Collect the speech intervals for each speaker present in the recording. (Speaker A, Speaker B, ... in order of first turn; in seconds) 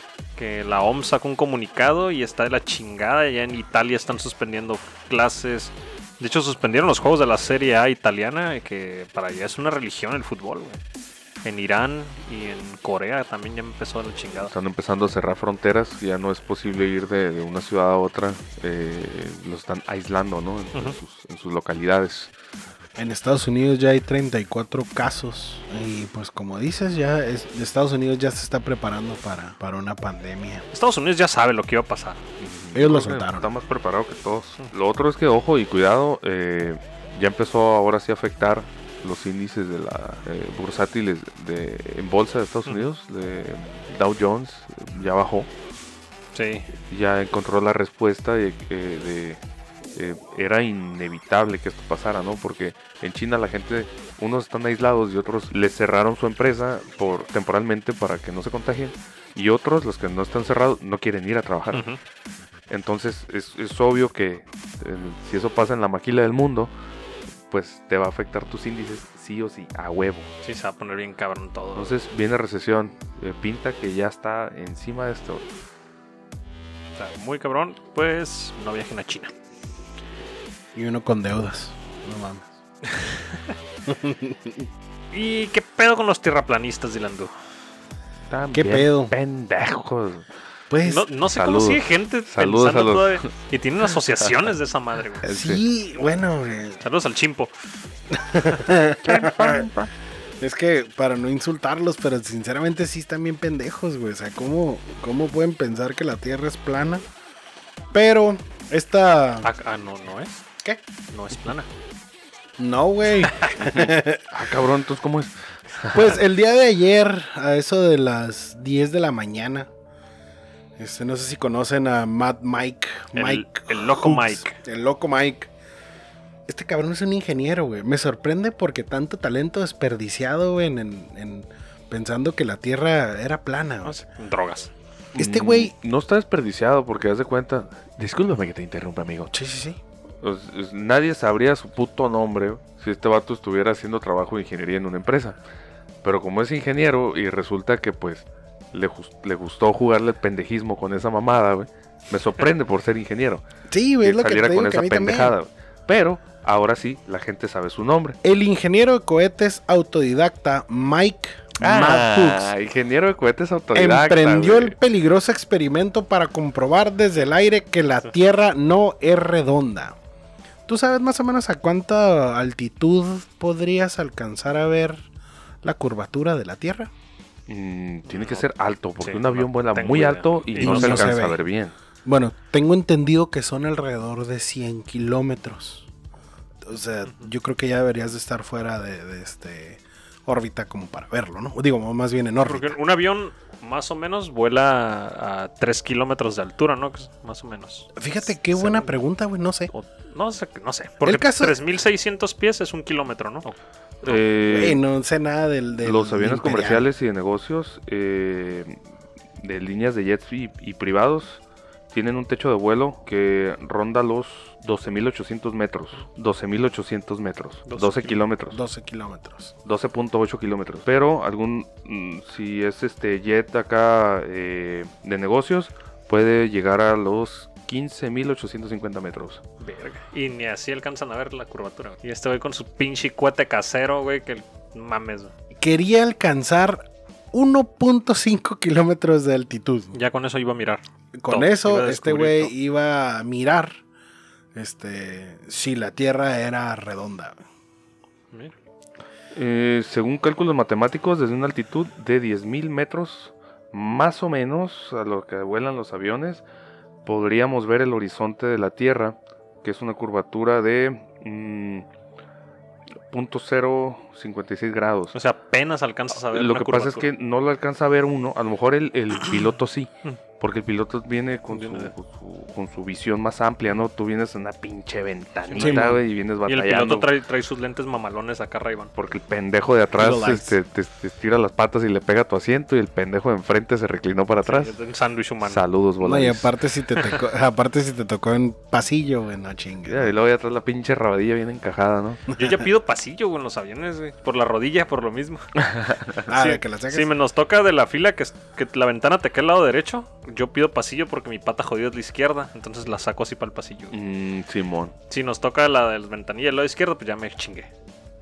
Speaker A: 0.3-10.8, 11.4-14.5, 30.7-32.2, 46.3-46.7, 61.7-62.0, 70.4-71.9, 77.0-79.3, 85.1-87.3, 90.8-95.2, 96.8-97.5, 109.4-110.4, 111.1-111.7, 123.1-124.5, 133.8-134.7, 178.1-178.4, 179.0-181.1, 192.4-197.9, 198.5-198.9, 199.7-204.2, 217.7-218.2, 229.6-235.3, 239.9-242.5, 265.1-267.1, 271.5-271.9, 275.5-275.9, 276.4-278.9, 284.4-285.6, 292.4-295.4, 296.3-303.9, 305.1-307.7
Speaker B: 14.4-22.3, 32.4-45.5, 46.9-49.4, 50.0-61.9, 62.7-66.7, 67.5-70.3, 71.8-75.4, 88.3-90.2, 91.3-93.3, 95.2-95.6, 99.0-99.9, 113.6-116.1, 135.1-139.3, 140.2-145.4, 146.0-153.4, 154.0-158.2, 161.6-164.8, 177.5-181.7, 204.0-204.8, 205.8-208.8, 209.4-218.6, 219.6-229.4, 249.3-256.4, 257.1-261.9, 263.1-265.1, 266.3-277.1, 278.9-284.7, 285.4-286.5, 289.9-292.2, 295.6-296.2, 303.9-304.9
Speaker C: 22.9-30.6, 32.7-33.5, 80.7-82.5, 83.9-84.7, 88.5-89.1, 90.7-91.1, 95.2-96.8, 98.1-99.7, 100.4-107.0, 107.9-109.5, 112.6-114.2, 115.9-119.7, 120.8-125.5, 126.5-134.0, 135.1-135.7, 139.3-139.8, 153.7-155.3, 158.2-162.5, 163.7-170.0, 170.7-175.0, 175.6-176.9, 180.6-181.4, 182.0-185.9, 186.6-192.8, 197.9-199.7, 201.0-201.6, 204.5-206.9, 218.5-219.5, 235.5-239.9, 241.2-243.8, 244.5-247.4, 275.6-276.0, 280.0-280.6, 286.0-290.1, 292.3-292.6, 296.3-297.1